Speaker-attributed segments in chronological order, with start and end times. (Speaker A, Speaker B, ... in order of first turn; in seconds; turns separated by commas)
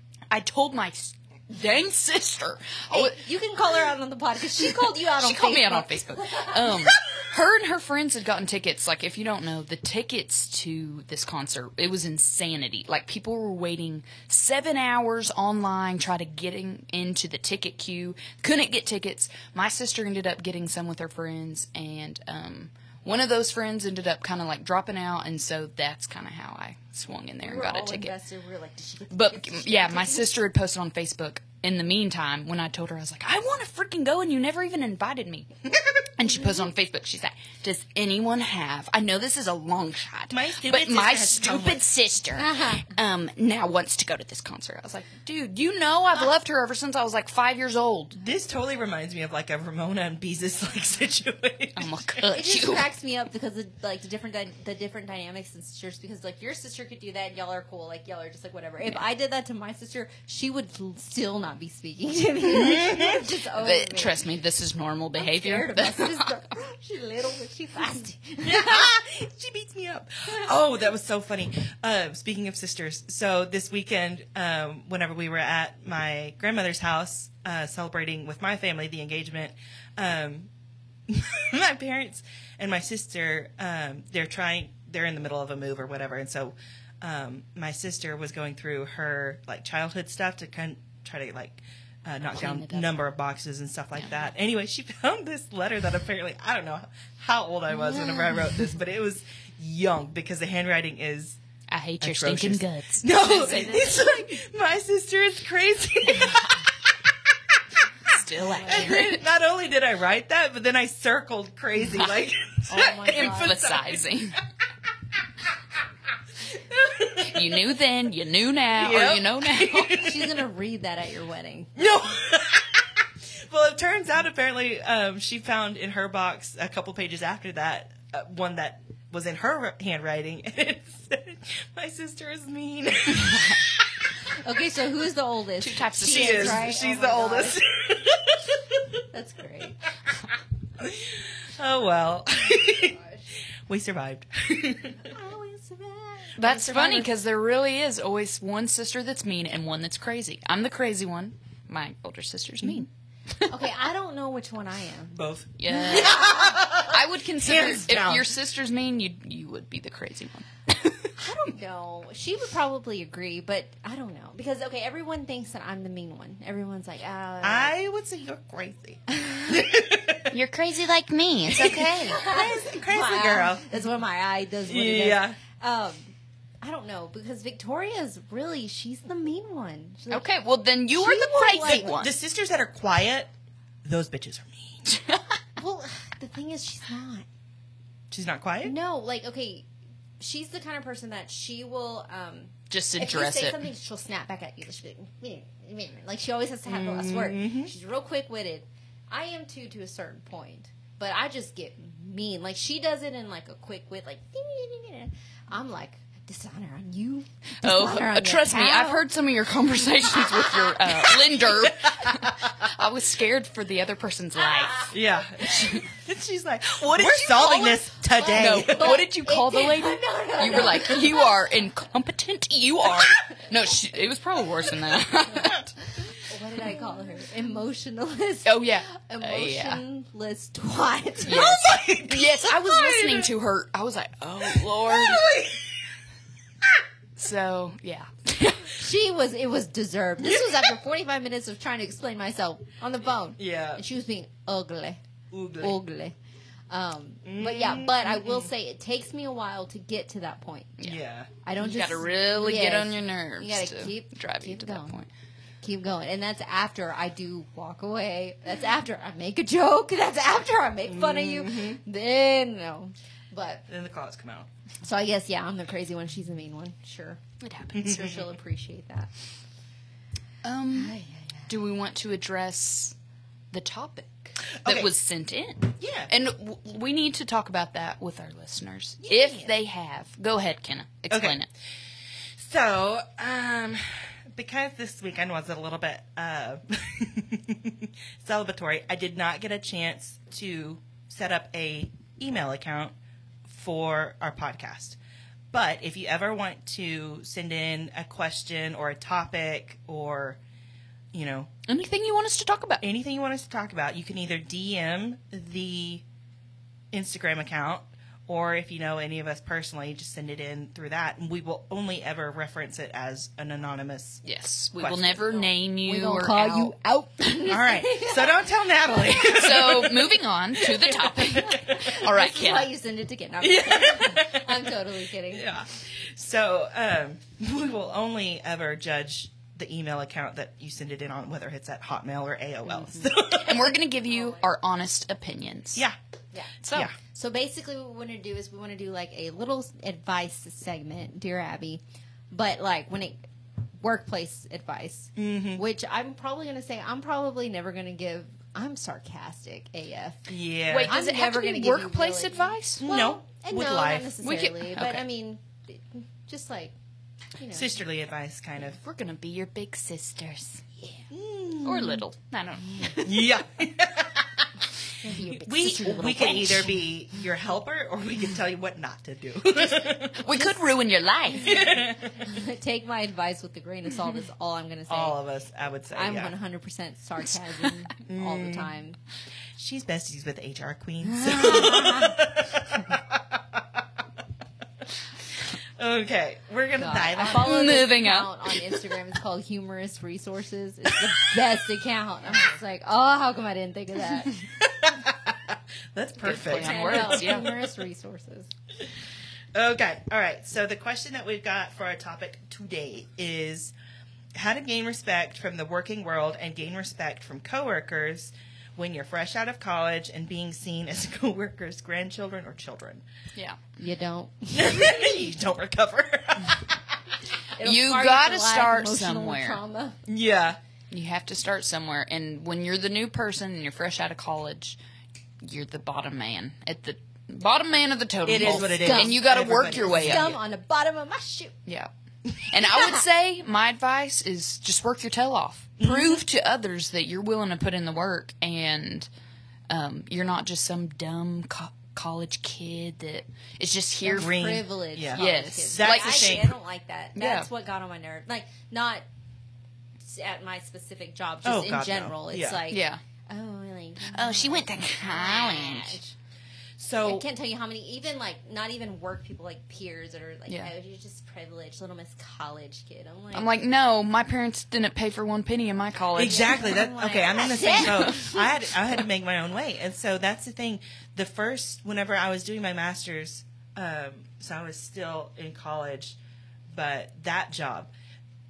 Speaker A: 0.3-3.2, Speaker B: 2.9-7.0, Speaker A: 4.5-28.1, Speaker B: 27.4-30.4, Speaker A: 29.1-35.5, Speaker A: 36.2-48.2, Speaker C: 40.3-41.8, Speaker B: 42.4-42.9, Speaker C: 48.2-52.1, Speaker A: 51.8-52.9, Speaker B: 52.3-64.2, Speaker C: 62.5-63.2, Speaker A: 63.5-66.3, Speaker B: 65.2-69.0, Speaker C: 68.4-80.5, Speaker C: 81.1-101.4, Speaker A: 92.4-92.9, Speaker A: 101.7-104.3, Speaker C: 102.0-106.7, Speaker A: 106.2-106.5, Speaker A: 108.1-109.2, Speaker B: 108.4-109.0, Speaker C: 108.6-114.0, Speaker B: 112.7-113.7, Speaker A: 112.9-114.4, Speaker C: 116.5-117.5, Speaker A: 117.2-120.1, Speaker C: 118.7-120.3, Speaker B: 119.9-121.8, Speaker C: 121.8-133.9, Speaker B: 134.4-137.6, Speaker A: 135.6-136.8, Speaker C: 136.0-138.9, Speaker B: 139.1-139.8, Speaker C: 140.8-143.0, Speaker B: 142.7-143.3, Speaker C: 143.7-145.1, Speaker B: 145.0-147.1, Speaker A: 146.4-152.9, Speaker B: 153.5-155.2, Speaker C: 155.1-158.3, Speaker A: 155.6-161.1, Speaker B: 155.7-156.6, Speaker B: 161.2-167.8, Speaker C: 167.4-170.4, Speaker A: 170.3-172.2, Speaker C: 171.5-173.7, Speaker B: 172.0-180.3, Speaker C: 174.7-175.4, Speaker A: 180.1-182.1, Speaker B: 180.9-181.9, Speaker C: 181.6-183.3, Speaker C: 183.8-184.9, Speaker A: 184.9-185.2, Speaker B: 185.6-187.3, Speaker C: 188.1-188.8, Speaker B: 188.6-189.7, Speaker B: 190.2-209.0, Speaker A: 192.7-193.7, Speaker C: 196.7-197.7, Speaker A: 207.6-215.9, Speaker B: 210.2-211.4, Speaker C: 211.9-212.3, Speaker C: 214.9-219.1, Speaker A: 216.6-225.7, Speaker B: 218.2-221.5, Speaker B: 226.1-231.7, Speaker A: 228.4-229.8, Speaker A: 231.3-235.3, Speaker C: 231.3-233.3, Speaker C: 234.4-235.8, Speaker A: 237.2-238.8, Speaker B: 238.7-245.0, Speaker C: 240.2-240.6, Speaker C: 243.4-243.8, Speaker C: 245.3-245.8, Speaker B: 245.6-246.2, Speaker B: 246.7-250.8, Speaker C: 247.2-248.5, Speaker C: 250.8-251.3, Speaker B: 251.4-255.0, Speaker A: 251.6-255.1, Speaker B: 255.6-263.6, Speaker C: 260.9-261.8, Speaker C: 263.7-264.5, Speaker B: 264.8-267.2, Speaker A: 267.4-268.1, Speaker C: 267.7-268.2, Speaker B: 267.8-269.1, Speaker A: 270.4-270.9, Speaker B: 270.7-271.5, Speaker A: 271.5-272.9, Speaker A: 273.5-281.5, Speaker C: 274.6-274.9, Speaker C: 275.8-276.1, Speaker C: 279.0-279.5, Speaker C: 281.1-281.4, Speaker C: 282.4-292.9, Speaker C: 293.5-295.0, Speaker C: 295.5-300.4, Speaker C: 301.1-301.5, Speaker A: 301.7-302.8, Speaker C: 302.8-306.0, Speaker C: 306.9-314.2, Speaker A: 314.2-316.7, Speaker C: 314.8-315.4, Speaker B: 315.4-318.4, Speaker C: 317.4-321.8, Speaker A: 319.2-322.7, Speaker B: 321.4-325.5, Speaker C: 323.4-324.7, Speaker C: 325.3-333.8, Speaker A: 332.7-335.8, Speaker B: 334.1-334.4, Speaker B: 336.3-343.2, Speaker A: 336.6-336.9, Speaker B: 343.8-350.3, Speaker C: 345.2-345.6, Speaker C: 350.3-350.9, Speaker A: 350.7-352.9, Speaker B: 350.8-356.7, Speaker C: 352.8-354.1, Speaker A: 354.2-355.1, Speaker B: 357.4-357.7, Speaker C: 357.5-358.8, Speaker A: 358.7-361.0, Speaker C: 361.1-362.0, Speaker A: 361.6-363.2, Speaker C: 363.0-364.5, Speaker B: 365.0-366.7, Speaker A: 365.4-366.7, Speaker C: 365.5-370.5, Speaker A: 370.2-371.7, Speaker C: 371.4-372.2, Speaker B: 371.5-375.2, Speaker C: 374.9-376.3, Speaker B: 375.9-379.0, Speaker C: 378.1-378.7, Speaker C: 379.6-383.8, Speaker B: 381.0-382.2, Speaker C: 385.8-387.7, Speaker B: 386.8-394.4, Speaker A: 387.2-388.6, Speaker C: 394.6-397.6, Speaker A: 396.2-397.5, Speaker B: 396.4-398.5, Speaker C: 399.5-403.7, Speaker C: 404.4-413.0, Speaker A: 413.4-413.8, Speaker B: 413.8-415.2, Speaker C: 414.5-416.8, Speaker B: 417.6-420.0, Speaker A: 417.6-419.6, Speaker C: 420.1-420.6, Speaker A: 420.9-424.8, Speaker A: 425.4-430.4, Speaker C: 428.2-430.4, Speaker B: 428.4-431.6, Speaker A: 432.4-439.1, Speaker B: 432.7-433.0, Speaker C: 435.8-436.2, Speaker A: 439.7-444.4, Speaker B: 444.0-449.0, Speaker C: 444.2-446.6, Speaker A: 445.1-446.4, Speaker A: 447.2-447.5, Speaker B: 450.0-456.1, Speaker C: 451.4-452.6, Speaker A: 452.7-453.0, Speaker A: 454.1-456.0, Speaker C: 456.8-457.2, Speaker B: 457.0-463.5, Speaker A: 463.3-466.8, Speaker C: 466.1-476.2, Speaker B: 466.2-468.5, Speaker A: 467.6-468.1, Speaker C: 476.7-477.9